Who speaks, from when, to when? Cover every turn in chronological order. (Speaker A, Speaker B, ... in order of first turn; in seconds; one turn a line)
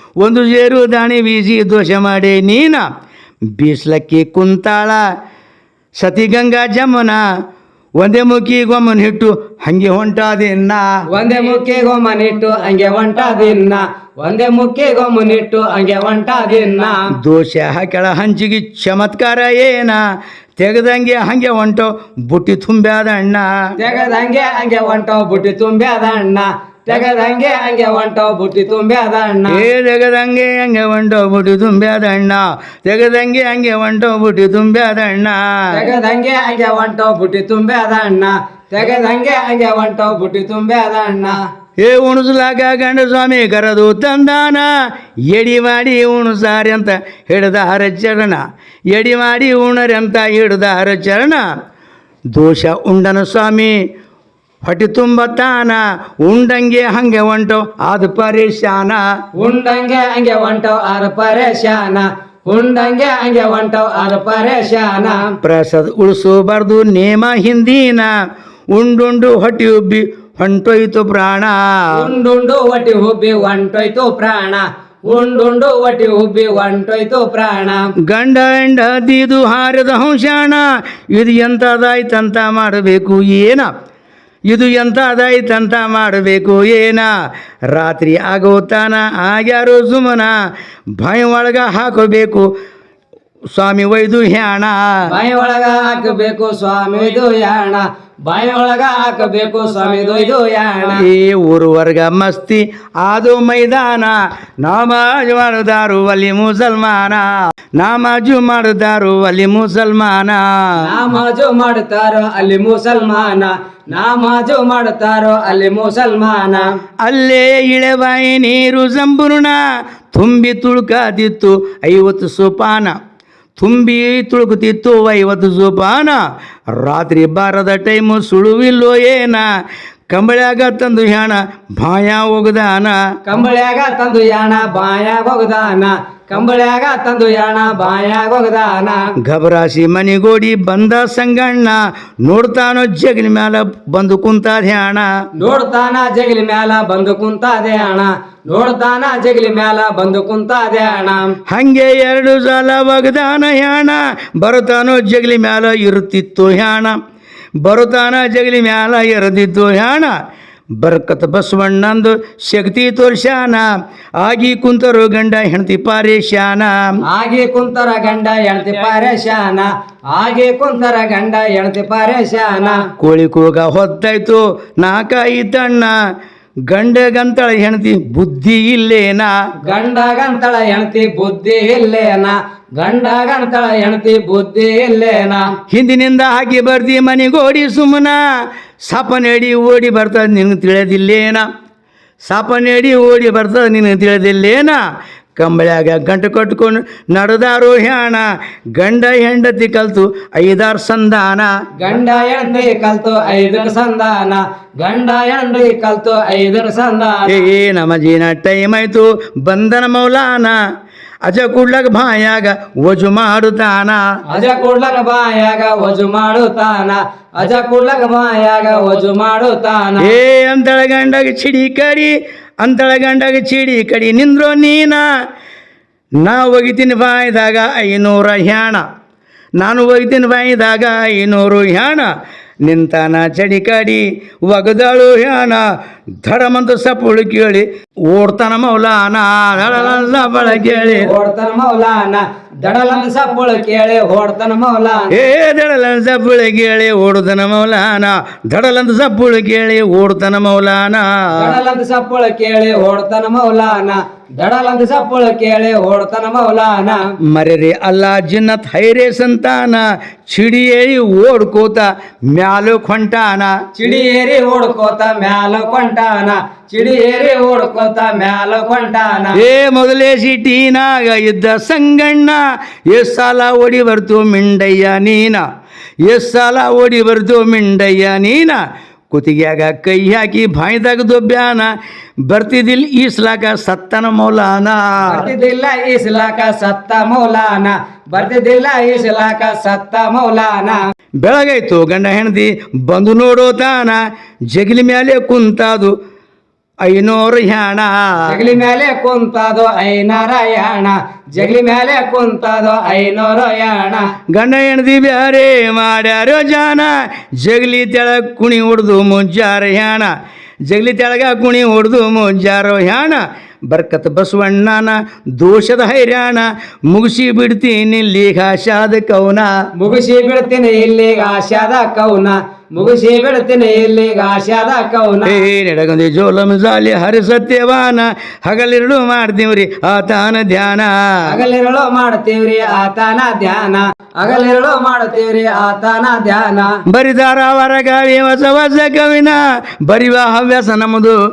Speaker A: 0.2-2.8
Speaker A: 3.5-5.0
Speaker A: 6.0-7.2
Speaker A: 8.0-10.9
Speaker B: 11.1-17.0
Speaker A: 17.2-20.0
Speaker A: 20.6-23.5
Speaker B: 23.8-29.6
Speaker A: 29.5-35.7
Speaker B: 35.7-41.4
Speaker A: 41.8-44.7
Speaker A: 45.3-51.4
Speaker A: 52.3-53.8
Speaker A: 54.6-59.0
Speaker B: 59.4-65.3
Speaker A: 65.4-68.1
Speaker A: 68.7-71.7
Speaker B: 71.9-77.8
Speaker A: 78.1-83.7
Speaker A: 84.5-87.1
Speaker A: 87.7-90.3
Speaker A: 91.0-92.5
Speaker A: 93.5-94.8
Speaker B: 95.1-101.0
Speaker A: 100.9-110.5
Speaker B: 110.8-116.7
Speaker A: 117.0-119.6
Speaker A: 120.1-123.0
Speaker A: 123.6-126.2
Speaker A: 126.8-129.5
Speaker A: 130.1-133.0
Speaker B: 133.2-139.0
Speaker A: 139.2-145.1
Speaker B: 145.4-151.3
Speaker A: 151.5-156.9
Speaker A: 157.6-160.1
Speaker A: 160.8-163.6
Speaker A: 164.2-166.7
Speaker B: 167.1-172.8
Speaker A: 173.0-175.9
Speaker A: 176.7-179.3
Speaker B: 179.6-185.4
Speaker A: 185.7-188.2
Speaker A: 188.9-191.5
Speaker A: 192.2-194.8
Speaker A: 195.4-201.5
Speaker B: 201.8-207.4
Speaker A: 207.3-210.6
Speaker A: 211.2-214.0
Speaker B: 214.3-220.1
Speaker A: 220.0-225.1
Speaker A: 226.2-228.8
Speaker A: 229.6-232.1
Speaker A: 232.6-235.6
Speaker A: 236.2-241.1
Speaker B: 239.6-245.2
Speaker A: 245.1-251.5
Speaker B: 251.4-257.0
Speaker A: 257.3-263.6
Speaker B: 263.8-269.4
Speaker A: 269.3-275.4
Speaker A: 276.1-278.6
Speaker A: 279.1-281.7
Speaker A: 282.3-285.2
Speaker B: 285.1-290.8
Speaker A: 291.2-295.9
Speaker A: 296.8-298.3
Speaker B: 298.3-304.0
Speaker A: 304.3-310.1
Speaker A: 310.7-319.5
Speaker B: 319.8-325.4
Speaker A: 325.2-331.0
Speaker B: 331.2-336.7
Speaker A: 336.9-341.2